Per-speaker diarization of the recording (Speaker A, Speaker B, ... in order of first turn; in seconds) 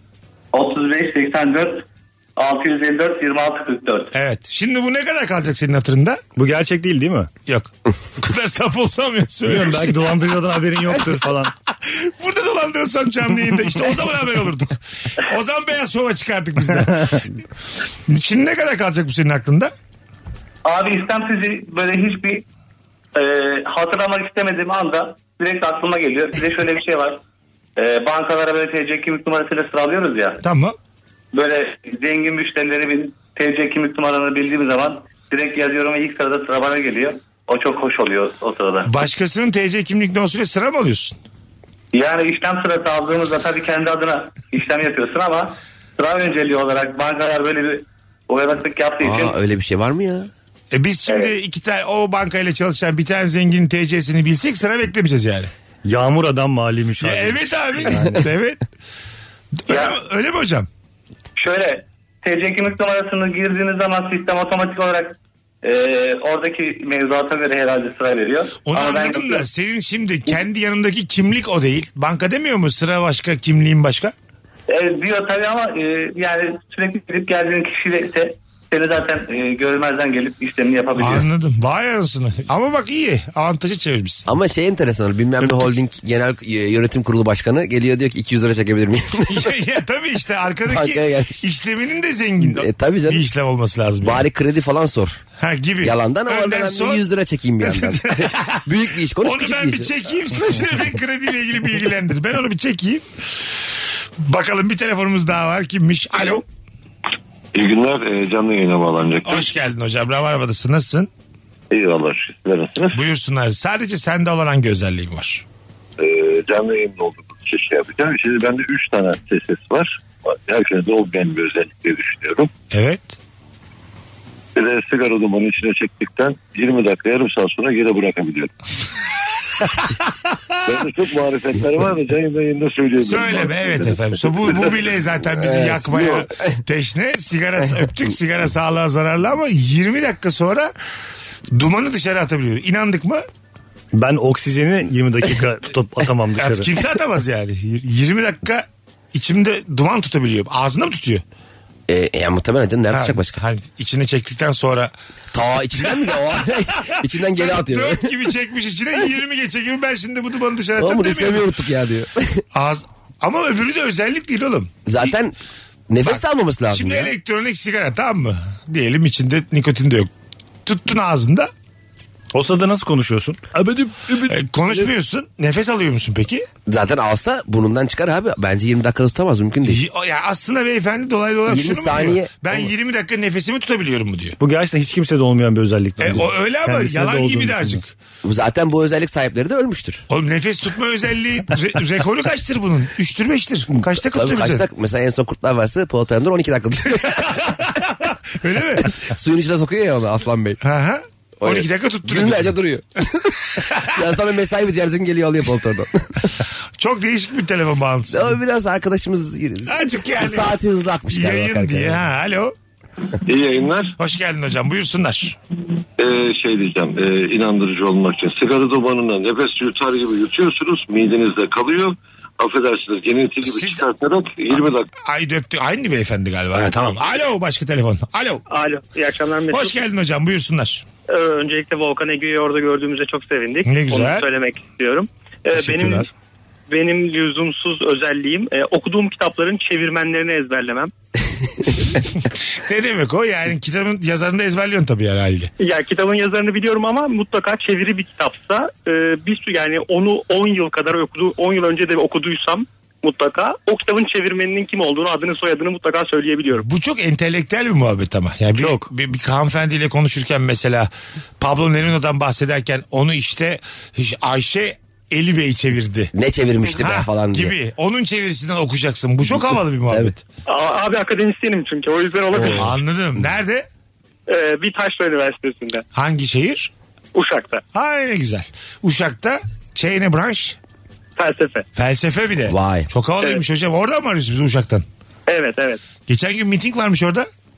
Speaker A: 0.5-4.1, 20.6-22.4, 23.1-27.2, 27.8-30.4, 31.3-38.9, 41.9-49.4, 59.7-60.0, 61.4-69.5, 74.7-81.3
Speaker B: 4.1-6.2, 7.5-10.0, 11.8-17.3, 18.1-19.7, 30.4-30.7, 38.9-41.2, 50.7-55.5, 57.0-58.6, 59.6-60.7, 68.6-74.1, 81.0-84.3, 85.4-85.7, 89.3-94.2, 95.4-97.0, 97.6-103.5, 104.2-106.4, 109.2-111.1, 112.9-115.4, 122.7-123.2, 133.0-140.7, 141.5-143.2, 146.4-151.2, 152.9-154.9, 155.8-161.5, 162.5-165.1, 166.0-170.1, 170.6-171.5, 174.3-176.5, 179.6-184.3, 186.0-187.9, 190.1-194.6, 197.1-199.0, 200.6-202.6, 206.8-208.4, 209.7-210.5, 211.1-212.5, 214.0-215.4, 223.4-223.9, 224.5-228.4, 229.5-230.8, 233.6-234.3, 242.5-245.5, 256.6-266.1, 266.7-270.2, 272.3-273.6, 275.9-276.7, 277.7-280.6, 281.8-284.8, 286.0-287.3
Speaker C: 6.3-7.3, 9.4-11.5, 55.8-58.3, 143.9-146.7, 172.3-174.3, 184.4-187.8, 235.5-236.1, 258.5-258.9
Speaker D: 49.0-50.3, 84.3-89.5, 90.7-91.5, 92.4-93.2, 94.0-95.2, 95.8-99.9, 135.4-136.3, 151.9-153.4, 155.3-158.1, 160.8-162.4, 164.8-165.3, 165.9-167.1, 176.7-179.8, 181.5-182.7, 188.2-190.0, 193.8-197.4, 199.0-200.6, 201.4-206.3, 208.1-212.0, 266.1-267.5, 282.5-282.9
Speaker E: 107.5-109.5, 111.7-113.0, 116.0-122.5, 124.5-128.5, 130.7-134.8, 213.2-213.9, 216.0-224.9
Speaker F: 228.5-229.8, 231.1-236.1, 236.7-240.9, 245.6-256.6, 270.5-272.7, 274.3-275.8, 277.1-277.6, 281.2-281.7, 285.3-285.8